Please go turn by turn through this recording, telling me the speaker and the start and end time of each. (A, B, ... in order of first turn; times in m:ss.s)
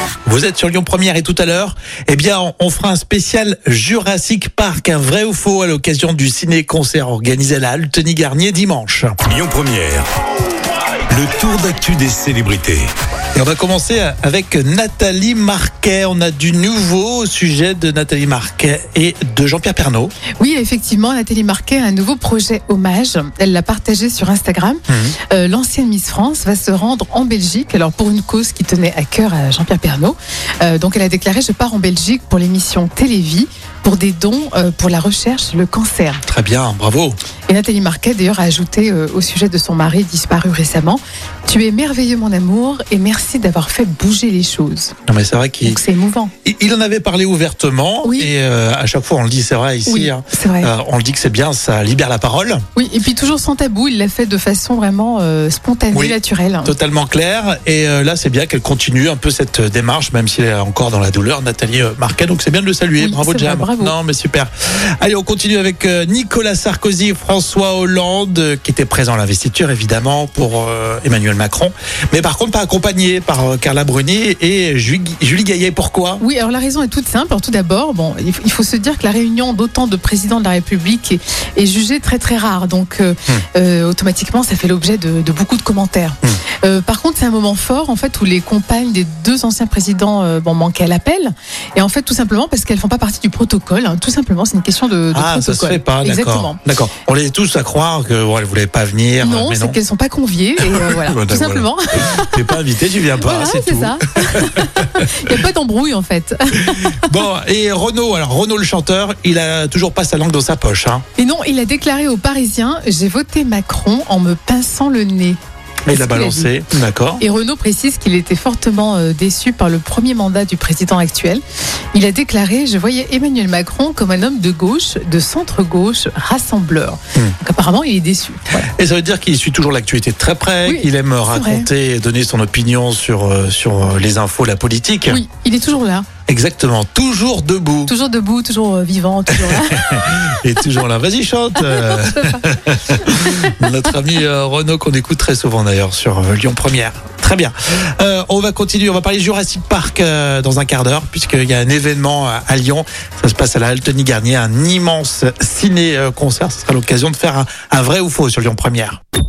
0:00.2-0:09.1 A
0:09.2-0:10.1 B
0:11.1-0:12.9 B
0:13.3-0:20.1 A
0:20.4-0:36.2 C
0:24.9-0:25.2 A
0:36.3-0:37.2 A
0:37.5-0:45.0 C
0:45.1-0:45.8 A
0:45.6-0:46.3 C
0:46.4-0:52.6 A
0:48.0-0:48.3 C
0:49.8-0:50.7 C
0:52.8-0:56.7 C
0:55.9-1:16.2 A
1:03.0-1:03.9 C
1:16.2-1:36.6 C
1:35.1-1:39.8 A
1:39.2-1:42.6 C
1:40.6-1:45.3 A
1:43.2-1:47.1 C
1:46.6-1:51.0 A
1:51.2-1:56.5 C
1:55.8-1:57.2 A
1:57.2-2:08.7 C
2:08.6-2:15.2 A
2:10.6-2:11.7 C
2:15.1-2:16.1 C
2:16.3-2:17.9 A
2:17.8-2:20.2 C
2:19.4-2:39.0 A
2:21.5-2:22.4 C
2:23.3-2:23.6 C